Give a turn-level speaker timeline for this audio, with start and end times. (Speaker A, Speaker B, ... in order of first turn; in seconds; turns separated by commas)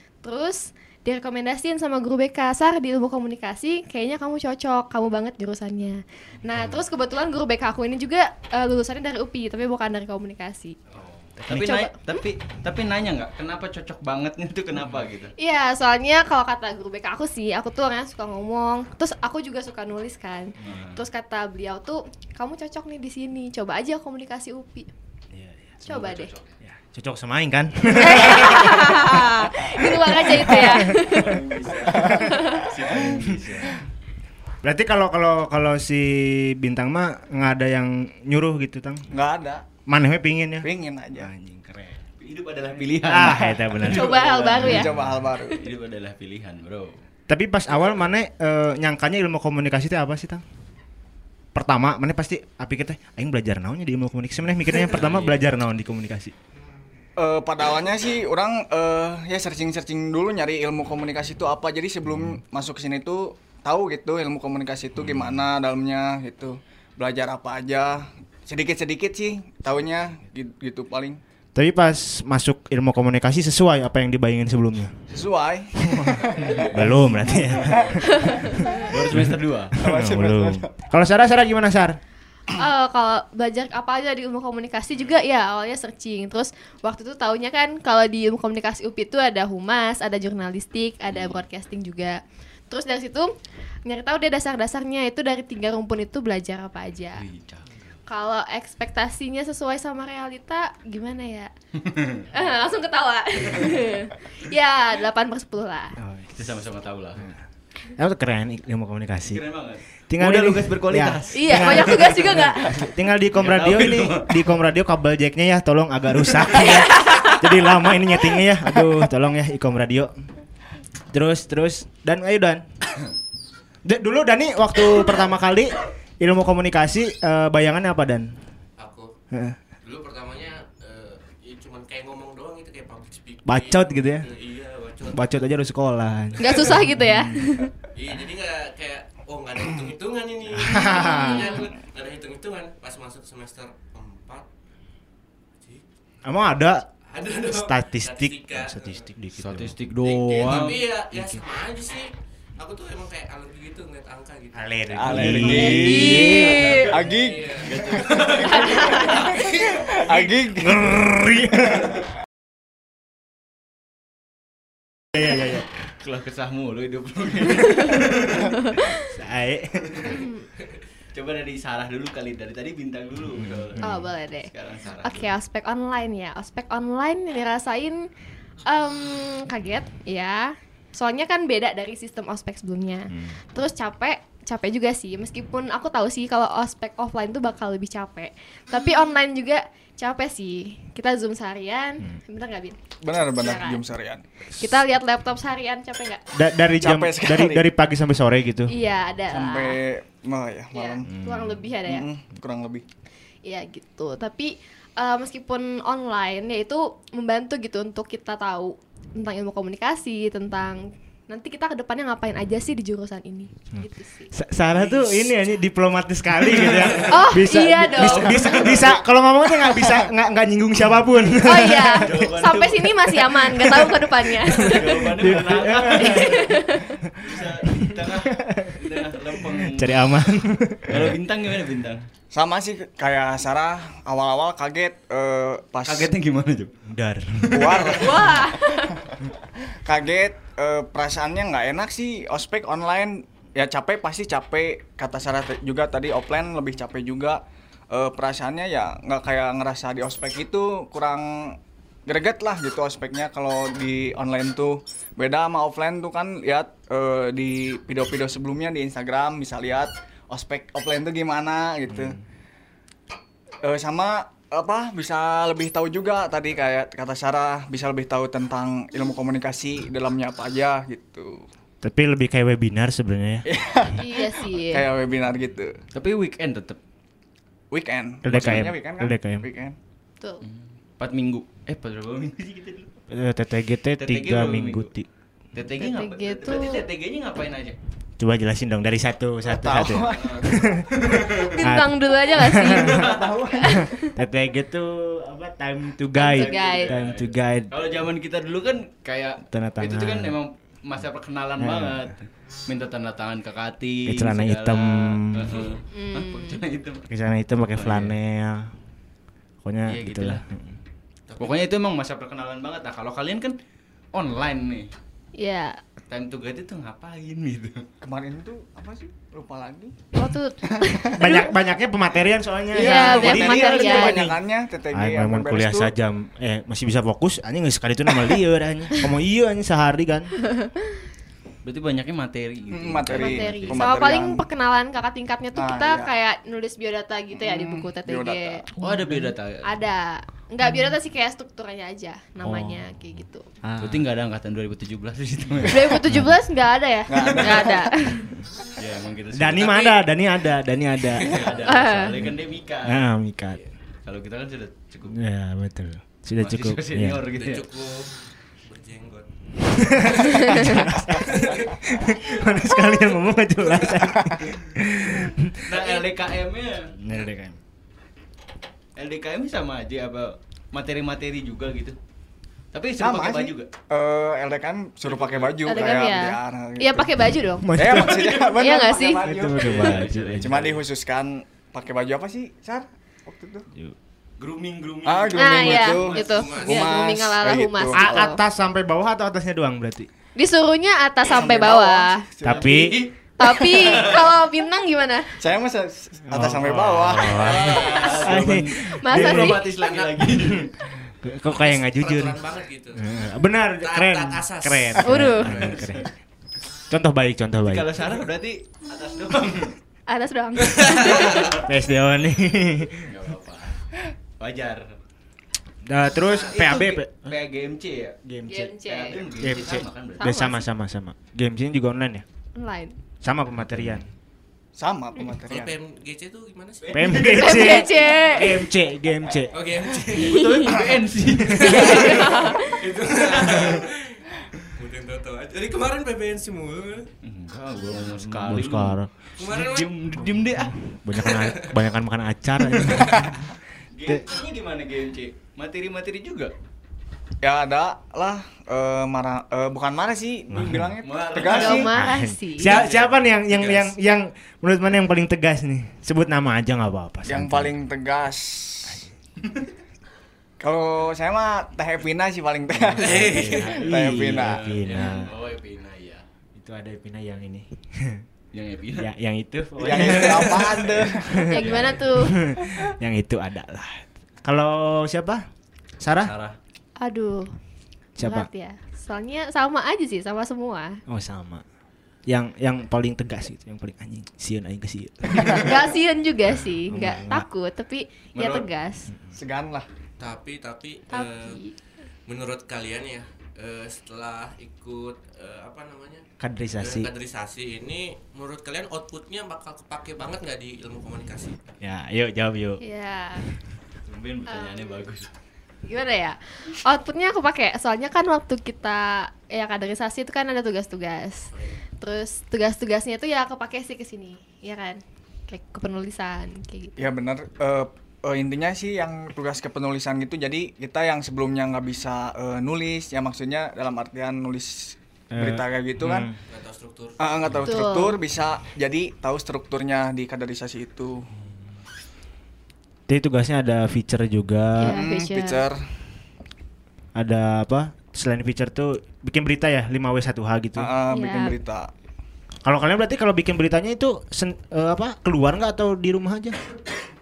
Speaker A: 0.2-10.8, Speaker B: 10.9-15.3, Speaker A: 11.5-12.2, Speaker A: 15.4-24.9, Speaker B: 20.6-21.0, Speaker C: 25.3-26.0, Speaker A: 25.9-26.3, Speaker B: 25.9-26.5, Speaker C: 26.6-31.3, Speaker A: 27.9-31.4, Speaker B: 30.8-33.8, Speaker D: 31.9-32.4, Speaker A: 32.0-32.7, Speaker C: 33.1-33.4, Speaker C: 34.6-39.1, Speaker D: 39.1-39.6, Speaker C: 39.9-42.0, Speaker D: 40.6-41.3, Speaker B: 42.2-47.0, Speaker C: 43.0-45.1, Speaker A: 43.8-45.6, Speaker D: 44.1-45.6, Speaker C: 47.3-50.4, Speaker C: 51.5-56.3, Speaker B: 54.8-55.4, Speaker D: 57.2-71.2, Speaker C: 71.5-75.0, Speaker D: 75.1-76.8, Speaker C: 75.8-82.0, Speaker B: 76.3-79.8, Speaker A: 78.1-78.9, Speaker D: 79.8-80.7, Speaker A: 82.5-93.3, Speaker B: 91.1-91.4, Speaker A: 93.8-97.2, Speaker B: 97.2-97.8, Speaker A: 98.1-101.5, Speaker B: 101.8-102.3, Speaker A: 102.3-106.0, Speaker C: 106.0-106.3, Speaker B: 106.3-107.3, Speaker C: 108.0-109.4, Speaker B: 109.3-112.3, Speaker C: 110.1-120.1, Speaker A: 111.3-112.8, Speaker B: 113.3-114.5, Speaker A: 116.5-117.4, Speaker C: 121.1-122.6, Speaker C: 123.8-128.3, Speaker E: 128.8-129.1, Speaker C: 129.3-129.6, Speaker E: 129.8-135.4, Speaker C: 133.5-134.3, Speaker C: 135.1-137.4, Speaker A: 136.4-137.7, Speaker E: 137.9-144.5, Speaker C: 140.6-141.4, Speaker A: 140.8-141.7, Speaker C: 146.2-146.9, Speaker E: 147.1-149.1, Speaker C: 147.5-149.8, Speaker B: 149.4-150.9, Speaker E: 150.0-155.2, Speaker C: 150.5-151.4, Speaker C: 154.6-156.8, Speaker D: 155.0-158.1, Speaker B: 155.1-159.3, Speaker A: 155.4-156.9, Speaker E: 157.1-160.3, Speaker A: 158.5-159.4, Speaker D: 159.7-160.9, Speaker C: 160.6-161.9, Speaker C: 165.2-165.7, Speaker B: 166.0-168.9, Speaker A: 167.8-169.1, Speaker C: 169.0-170.2, Speaker B: 169.8-170.2, Speaker A: 170.1-170.4, Speaker B: 171.1-175.3, Speaker C: 173.3-174.1, Speaker A: 173.8-174.5, Speaker A: 175.0-178.1, Speaker A: 178.7-193.8, Speaker D: 193.0-194.2, Speaker A: 194.6-196.2, Speaker C: 196.3-198.8, Speaker D: 196.8-197.7, Speaker A: 198.7-199.8, Speaker D: 199.3-201.1, Speaker A: 200.7-202.1, Speaker C: 201.1-201.7, Speaker D: 201.8-202.8, Speaker A: 203.4-214.3, Speaker C: 213.7-222.2, Speaker B: 214.7-215.3, Speaker B: 216.6-217.1, Speaker A: 217.1-218.7, Speaker B: 217.8-219.0, Speaker A: 221.4-225.1, Speaker B: 221.7-223.3, Speaker C: 223.6-223.9, Speaker C: 224.5-228.8, Speaker B: 224.6-230.1, Speaker A: 225.7-227.0, Speaker C: 229.4-231.2, Speaker B: 230.9-232.1, Speaker D: 232.3-236.1, Speaker B: 235.8-236.8, Speaker C: 236.9-237.8, Speaker B: 237.4-238.1, Speaker D: 237.5-238.3, Speaker A: 237.9-239.0, Speaker D: 239.8-262.2, Speaker C: 261.9-262.2, Speaker D: 263.6-271.4, Speaker C: 271.8-273.5, Speaker D: 273.5-275.8, Speaker A: 274.0-274.9, Speaker B: 275.9-276.8, Speaker D: 277.7-279.8, Speaker C: 278.2-279.5, Speaker B: 278.4-278.7, Speaker B: 280.4-282.9, Speaker C: 283.1-285.1, Speaker B: 284.0-284.9, Speaker B: 285.5-287.8, Speaker A: 285.8-286.9, Speaker C: 288.2-291.0, Speaker D: 289.4-290.6, Speaker B: 289.9-291.6, Speaker A: 291.4-294.2, Speaker C: 291.6-293.1, Speaker B: 292.7-293.4, Speaker D: 292.9-293.9, Speaker C: 293.8-297.7, Speaker A: 296.1-296.9, Speaker B: 296.2-307.1, Speaker C: 299.5-300.4, Speaker C: 301.6-302.1, Speaker C: 304.1-305.6, Speaker A: 305.9-306.6, Speaker C: 307.1-308.7, Speaker B: 307.7-308.2, Speaker C: 309.6-310.7, Speaker B: 309.9-310.4, Speaker E: 311.3-311.6, Speaker B: 311.4-313.6, Speaker B: 314.1-314.9, Speaker A: 315.4-315.8, Speaker B: 316.1-317.9, Speaker D: 318.0-320.0, Speaker A: 320.1-321.5, Speaker D: 320.7-321.3, Speaker C: 321.1-324.4, Speaker A: 322.7-324.2, Speaker D: 322.7-325.9, Speaker C: 324.9-330.3, Speaker B: 331.6-334.0, Speaker D: 332.7-334.4, Speaker A: 333.1-338.6, Speaker D: 335.6-336.1, Speaker D: 337.3-338.7, Speaker C: 338.8-339.3, Speaker B: 338.8-339.6, Speaker A: 339.6-343.5, Speaker C: 342.4-342.8, Speaker C: 343.6-344.1, Speaker B: 343.8-346.0, Speaker A: 345.7-348.3, Speaker C: 346.0-346.4, Speaker D: 347.1-347.9, Speaker B: 348.8-349.9, Speaker C: 349.3-352.3, Speaker B: 351.2-353.1, Speaker A: 351.6-352.1, Speaker C: 352.9-353.6, Speaker B: 354.0-355.2, Speaker C: 355.1-357.2, Speaker B: 356.4-357.7, Speaker E: 357.3-362.5, Speaker C: 359.7-365.6, Speaker A: 360.3-360.8, Speaker E: 363.6-364.1, Speaker B: 365.6-367.0, Speaker C: 367.0-367.6, Speaker B: 369.0-372.0, Speaker B: 372.7-373.7, Speaker D: 373.0-377.1, Speaker B: 375.0-376.0, Speaker A: 375.6-379.3, Speaker C: 377.6-378.5, Speaker D: 377.8-383.7, Speaker C: 379.2-380.6, Speaker B: 379.5-380.8, Speaker B: 384.4-386.0, Speaker D: 385.1-388.2, Speaker A: 385.4-388.4, Speaker E: 385.9-386.9, Speaker C: 387.9-390.1, Speaker A: 390.4-392.3, Speaker D: 391.3-392.8, Speaker C: 392.4-393.0, Speaker B: 392.4-394.3, Speaker A: 393.4-395.4, Speaker D: 395.4-398.3, Speaker C: 396.3-399.6, Speaker B: 397.2-400.7, Speaker A: 398.0-399.7, Speaker E: 399.8-400.2, Speaker C: 401.2-402.4, Speaker E: 401.5-403.1, Speaker C: 402.9-406.1, Speaker E: 403.8-406.0, Speaker A: 405.0-405.5, Speaker B: 405.5-406.0, Speaker C: 406.9-408.1, Speaker B: 407.6-409.8, Speaker A: 410.1-411.6, Speaker E: 410.6-411.6, Speaker C: 411.5-413.1, Speaker B: 413.0-413.8, Speaker B: 414.4-415.0, Speaker C: 415.9-417.3, Speaker B: 416.5-418.2, Speaker C: 418.2-418.7, Speaker A: 418.5-419.2, Speaker B: 418.8-420.4, Speaker C: 419.4-422.2, Speaker A: 420.2-420.6, Speaker A: 422.6-422.9, Speaker C: 423.2-424.1, Speaker D: 424.8-425.8, Speaker E: 425.5-427.1, Speaker B: 426.8-428.1, Speaker C: 426.9-429.5, Speaker A: 427.3-428.6, Speaker E: 429.5-430.4, Speaker B: 429.9-433.8, Speaker A: 430.1-430.8, Speaker C: 431.5-431.8, Speaker E: 431.6-437.1, Speaker A: 431.6-432.8, Speaker B: 437.2-440.8, Speaker C: 438.2-439.1, Speaker E: 439.4-439.9, Speaker C: 440.9-443.5, Speaker E: 441.2-441.8, Speaker B: 442.7-443.1, Speaker B: 443.9-446.5, Speaker D: 447.4-451.9, Speaker C: 450.5-450.9, Speaker B: 451.0-451.9, Speaker A: 451.4-452.8, Speaker C: 451.9-457.8, Speaker E: 452.6-453.9, Speaker D: 457.3-459.0, Speaker B: 459.4-459.7, Speaker D: 460.6-464.6, Speaker C: 462.7-465.3, Speaker E: 463.0-463.9, Speaker B: 463.6-466.2, Speaker C: 466.6-468.2, Speaker B: 468.5-469.1, Speaker C: 469.0-475.4, Speaker D: 469.8-471.5, Speaker B: 469.9-470.8, Speaker A: 471.4-472.4, Speaker B: 471.5-472.1, Speaker C: 476.0-476.3, Speaker B: 476.2-476.6, Speaker A: 477.0-477.5, Speaker C: 478.2-478.5, Speaker A: 478.2-481.0, Speaker C: 481.1-481.6, Speaker C: 482.3-485.9, Speaker A: 485.3-489.1, Speaker C: 486.9-487.5, Speaker B: 488.4-488.7, Speaker D: 489.4-489.9, Speaker E: 490.2-491.6, Speaker A: 491.1-491.7, Speaker E: 492.3-496.2, Speaker C: 496.4-497.1, Speaker E: 496.8-501.6, Speaker C: 501.8-502.8, Speaker A: 502.8-503.5, Speaker B: 504.1-505.3, Speaker A: 504.5-505.0, Speaker A: 505.9-517.0, Speaker E: 511.5-511.8, Speaker D: 517.0-526.3, Speaker C: 525.3-526.4, Speaker E: 526.5-527.2, Speaker D: 527.2-531.3, Speaker A: 527.6-528.2, Speaker C: 533.1-535.0, Speaker A: 534.8-535.7, Speaker D: 534.8-535.8, Speaker C: 537.1-540.9, Speaker D: 540.8-541.9, Speaker A: 541.1-541.5, Speaker C: 542.6-546.6